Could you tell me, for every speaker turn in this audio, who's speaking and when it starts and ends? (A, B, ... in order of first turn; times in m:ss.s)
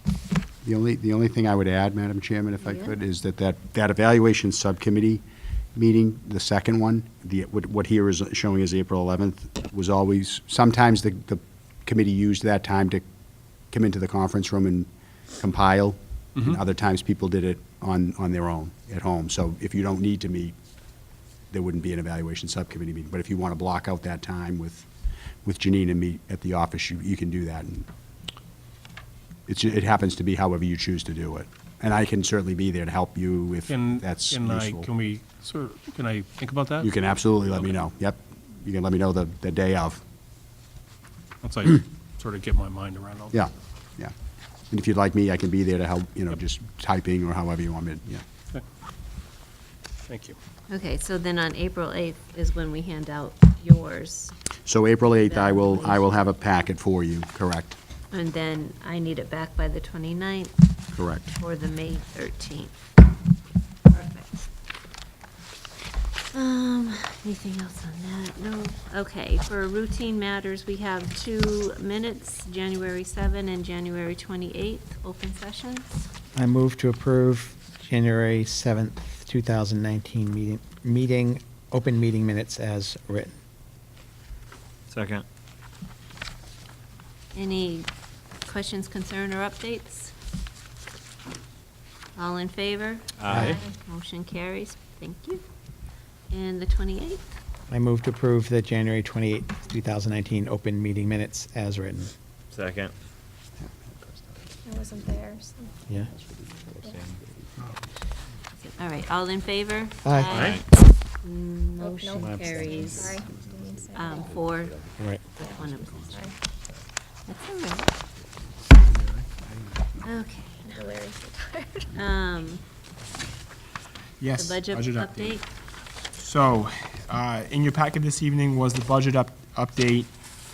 0:00.6-0:05.2 A
0:02.6-0:02.9 B
0:05.8-0:13.0 A
0:13.7-0:20.6 A
0:21.5-0:24.9 A
0:25.4-0:27.9 A
0:29.5-0:34.9 A
0:33.7-0:36.9 C
0:36.8-0:40.0 A
0:37.5-0:37.8 C
0:41.4-0:43.4 C
0:43.3-0:44.1 A
0:44.7-0:48.2 A
0:50.1-0:50.4 C
0:50.7-0:54.4 B
0:54.7-0:57.8 A
0:55.2-0:56.0 B
0:58.1-1:00.5 B
1:00.9-1:01.3 A
1:01.4-1:02.7 B
1:03.9-1:04.5 B
1:06.3-1:15.9 B
1:16.4-1:23.3 D
1:24.9-1:25.2 E
1:27.3-1:27.9 B
1:28.4-1:30.1 B
1:32.2-1:35.4 B
1:33.2-1:33.6 E
1:33.3-1:33.6 D
1:36.3-1:37.2 B
1:37.7-1:42.1 D
1:42.5-1:42.9 E
1:43.6-1:45.2 A
1:44.7-1:45.7 F
1:45.9-1:46.8 A
1:46.8-1:47.2 E
1:48.6-1:50.6 B
1:50.0-1:50.3 D
1:50.3-1:50.6 E
1:51.2-1:53.2 B
1:51.8-1:54.4 F
1:53.9-1:56.3 B
1:55.0-1:55.2 D
1:57.3-1:57.9 B
2:00.0-2:00.8 B
2:00.6-2:01.9 F
2:02.0-2:02.6 B
2:04.2-2:05.4 G
2:04.4-2:05.5 B
2:06.2-2:10.1 G